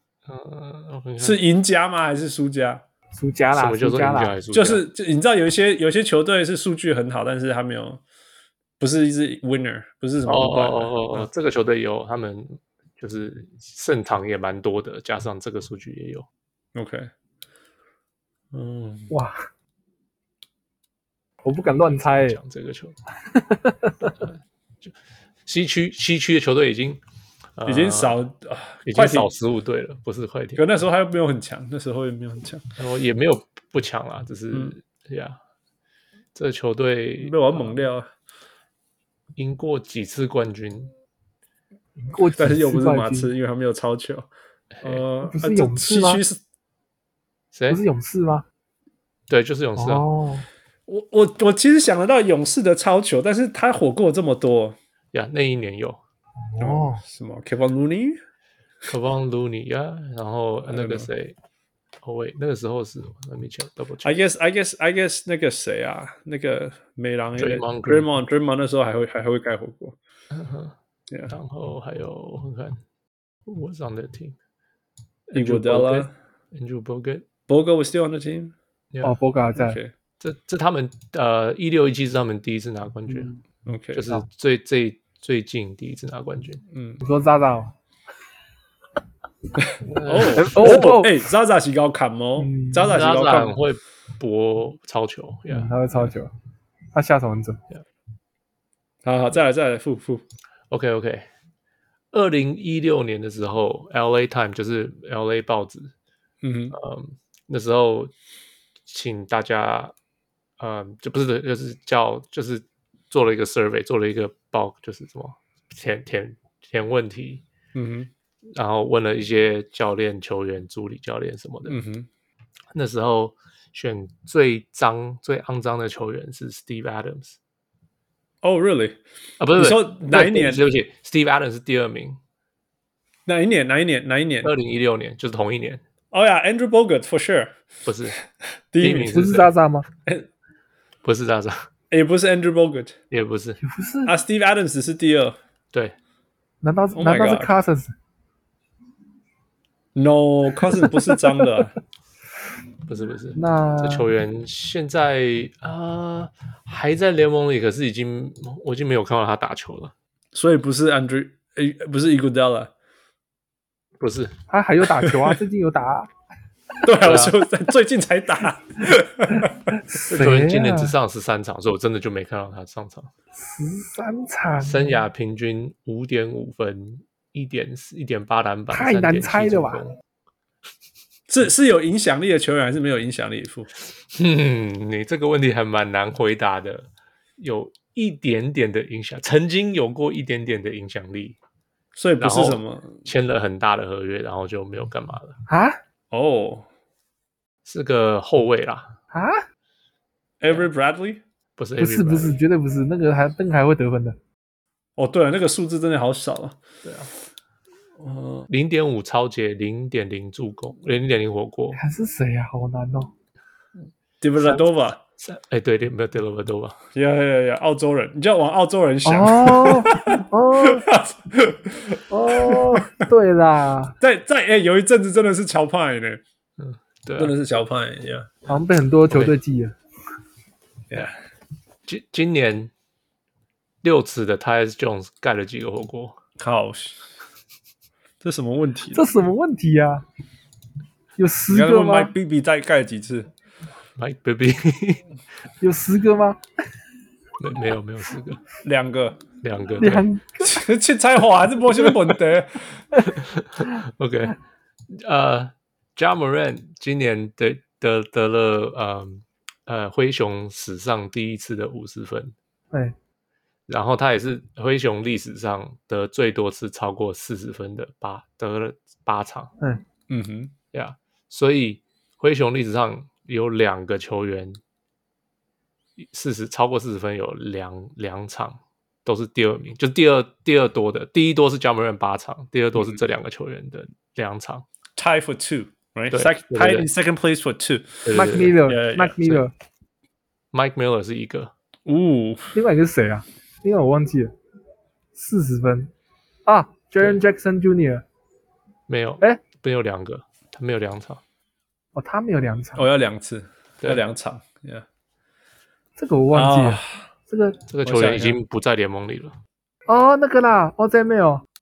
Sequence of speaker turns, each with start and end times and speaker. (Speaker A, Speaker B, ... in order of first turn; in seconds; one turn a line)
Speaker A: 0.3-1.4
Speaker B: 1.2-2.8
Speaker C: 3.1-4.3
Speaker A: 3.5-4.8
Speaker B: 4.5-8.0
Speaker B: 8.8-11.3
Speaker A: 10.2-16.2
Speaker B: 16.7-17.1
Speaker B: 18.5-19.1
Speaker C: 19.1-19.4
Speaker C: 21.4-22.4
Speaker A: 21.9-23.0
Speaker C: 23.3-24.1
Speaker A: 24.1-24.9
Speaker A: 25.4-27.0
Speaker A: 27.6-28.2
Speaker B: 27.6-29.3
Speaker A: 28.9-30.7
Speaker B: 30.6-32.6
Speaker A: 32.8-35.4
Speaker A: 36.3-37.8
Speaker B: 37.2-38.1
Speaker A: 39.4-40.9
Speaker C: 42.0-43.3
Speaker B: 42.4-44.3
Speaker A: 44.8-45.0
Speaker B: 44.8-46.4
Speaker C: 45.2-46.2
Speaker A: 47.5-47.8
Speaker C: 47.7-48.4
Speaker A: 49.3-50.0
Speaker C: 49.8-50.5
Speaker B: 50.9-54.8
Speaker A: 55.1-56.0
Speaker C: 56.5-57.0
Speaker B: 56.6-58.2
Speaker A: 58.9-61.3
Speaker B: 60.7-61.1
Speaker A: 62.0-64.1
Speaker B: 64.0-70.0
Speaker A: 67.4-68.1
Speaker A: 70.3-70.7
Speaker A: 71.3-72.8
Speaker A: 73.5-74.4
Speaker A: 75.3-77.3
Speaker B: 75.3-76.1
Speaker B: 77.5-78.5
Speaker C: 79.0-79.8
Speaker B: 79.6-79.9
Speaker A: 80.2-83.3
Speaker B: 83.7-84.1
Speaker A: 83.9-86.6
Speaker B: 86.7-87.0
Speaker C: 87.0-87.7
Speaker B: 89.6-93.6
Speaker A: 89.9-90.9
Speaker C: 90.3-91.2
Speaker C: 92.4-92.9
Speaker A: 92.8-96.1
Speaker C: 95.5-96.3
Speaker C: 96.9-97.6
Speaker B: 99.0-100.2
Speaker A: 100.7-101.3
Speaker A: 102.1-105.9
Speaker B: 106.4-106.8
Speaker A: 106.7-108.1
Speaker A: 108.9-109.9
Speaker A: 110.6-117.4
Speaker B: 117.7-118.1
Speaker A: 118.5-121.8
Speaker B: 121.7-122.1
Speaker A: 122.7-127.4
Speaker B: 128.4-129.0
Speaker A: 129.4-132.2
Speaker B: 129.6-130.6
Speaker B: 133.2-134.5
Speaker A: 134.4-135.8
Speaker B: 136.1-137.6
Speaker A: 137.8-138.2
Speaker B: 138.7-139.3
Speaker A: 138.8-139.5
Speaker C: 139.1-139.8
Speaker A: 141.0-141.7
Speaker B: 141.9-142.9
Speaker A: 143.1-143.6
Speaker C: 143.6-144.1
Speaker B: 144.1-145.4
Speaker C: 146.6-147.9
Speaker B: 146.9-147.5
Speaker B: 149.9-151.8
Speaker A: 152.9-159.9
Speaker C: 153.3-154.1
Speaker B: 160.3-162.7
Speaker A: 164.0-164.3
Speaker C: 164.5-166.1
Speaker B: 165.0-165.3
Speaker B: 166.8-169.7
Speaker A: 167.0-167.4
Speaker C: 169.8-170.9
Speaker A: 169.9-173.1
Speaker C: 173.3-175.0
Speaker A: 174.6-179.9
Speaker C: 178.7-179.8
Speaker B: 181.3-183.7
Speaker A: 184.1-191.4
Speaker B: 191.9-193.0
Speaker A: 192.2-195.4
Speaker C: 195.5-195.8
Speaker B: 196.1-196.7
Speaker A: 197.6-198.9
Speaker C: 199.1-199.4
Speaker B: 200.4-201.2
Speaker A: 201.6-202.4
Speaker C: 201.8-204.2
Speaker B: 205.0-206.6
Speaker A: 206.8-207.1
Speaker B: 208.0-208.5
Speaker A: 208.5-211.8
Speaker C: 211.7-213.1
Speaker B: 214.2-215.0
Speaker A: 215.2-216.8
Speaker B: 216.9-223.0
Speaker C: 219.0-220.9
Speaker C: 222.1-224.0
Speaker B: 224.0-226.2
Speaker A: 226.6-227.3
Speaker B: 227.2-228.3
Speaker C: 228.5-229.8
Speaker B: 230.9-231.1
Speaker A: 231.9-232.7
Speaker A: 233.8-236.2
Speaker B: 236.4-237.1
Speaker B: 238.2-239.0
Speaker C: 238.9-240.0
Speaker C: 241.2-242.1
Speaker B: 241.5-243.3
Speaker A: 244.0-245.0
Speaker C: 245.6-246.4
Speaker A: 247.4-248.4
Speaker B: 248.6-249.2
Speaker A: 249.4-250.1
Speaker C: 249.8-250.5
Speaker B: 250.4-252.8
Speaker A: 253.0-254.4
Speaker A: 254.9-262.3
Speaker A: 263.7-269.5
Speaker B: 270.1-270.5
Speaker A: 270.7-274.6
Speaker A: 276.0-284.6
Speaker B: 285.0-288.1
Speaker A: 286.1-286.9
Speaker A: 288.0-288.6
Speaker C: 288.1-289.5
Speaker B: 288.6-289.2
Speaker A: 290.5-291.5
Speaker B: 291.9-292.5
Speaker C: 292.5-294.3
Speaker C: 295.1-295.9
Speaker C: 296.4-298.0
Speaker A: 298.9-301.2
Speaker C: 301.9-302.8
Speaker B: 302.8-304.8
Speaker C: 306.0-307.6
Speaker B: 306.3-307.1
Speaker A: 307.7-309.4
Speaker B: 307.8-308.4
Speaker C: 309.9-311.4